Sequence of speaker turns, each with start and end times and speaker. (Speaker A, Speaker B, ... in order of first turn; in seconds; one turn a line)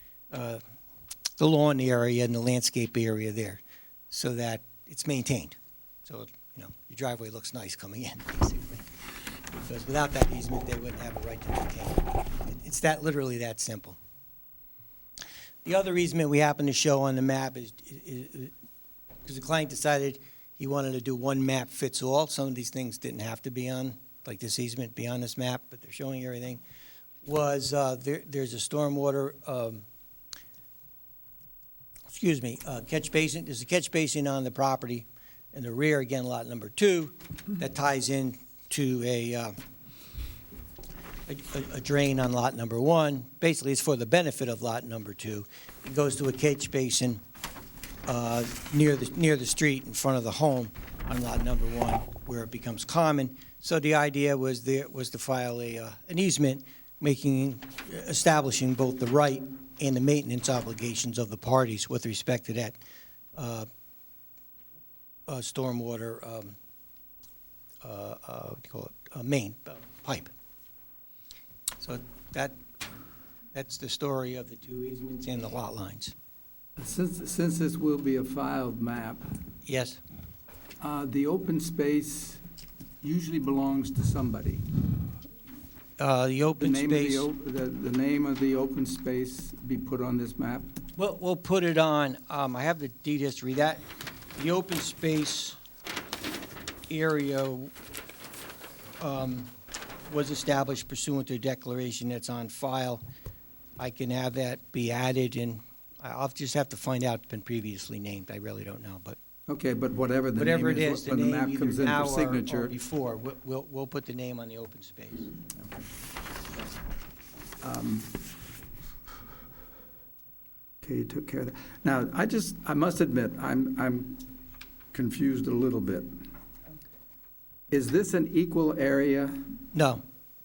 Speaker A: 0.3-0.6
Speaker A: 1.4-8.9
Speaker A: 9.6-14.0
Speaker A: 15.6-18.5
Speaker A: 19.2-26.6
Speaker A: 27.2-29.8
Speaker A: 32.1-39.5
Speaker A: 41.3-47.2
Speaker A: 48.1-62.8
Speaker A: 63.4-63.7
Speaker A: 65.3-66.6
Speaker A: 67.8-70.3
Speaker A: 71.8-72.6
Speaker A: 73.5-76.2
Speaker B: 76.8-79.3
Speaker A: 79.7-80.0
Speaker B: 80.8-82.4
Speaker B: 83.0-84.7
Speaker A: 86.0-87.3
Speaker B: 86.6-90.7
Speaker A: 91.0-93.8
Speaker A: 94.3-95.6
Speaker A: 96.9-97.7
Speaker A: 99.0-99.5
Speaker A: 100.1-103.0
Speaker A: 103.8-109.2
Speaker B: 109.5-112.8
Speaker A: 110.4-115.3
Speaker B: 115.6-115.8
Speaker B: 117.6-118.2
Speaker B: 120.8-124.3
Speaker B: 124.9-126.2
Speaker B: 127.7-129.6
Speaker A: 129.7-130.0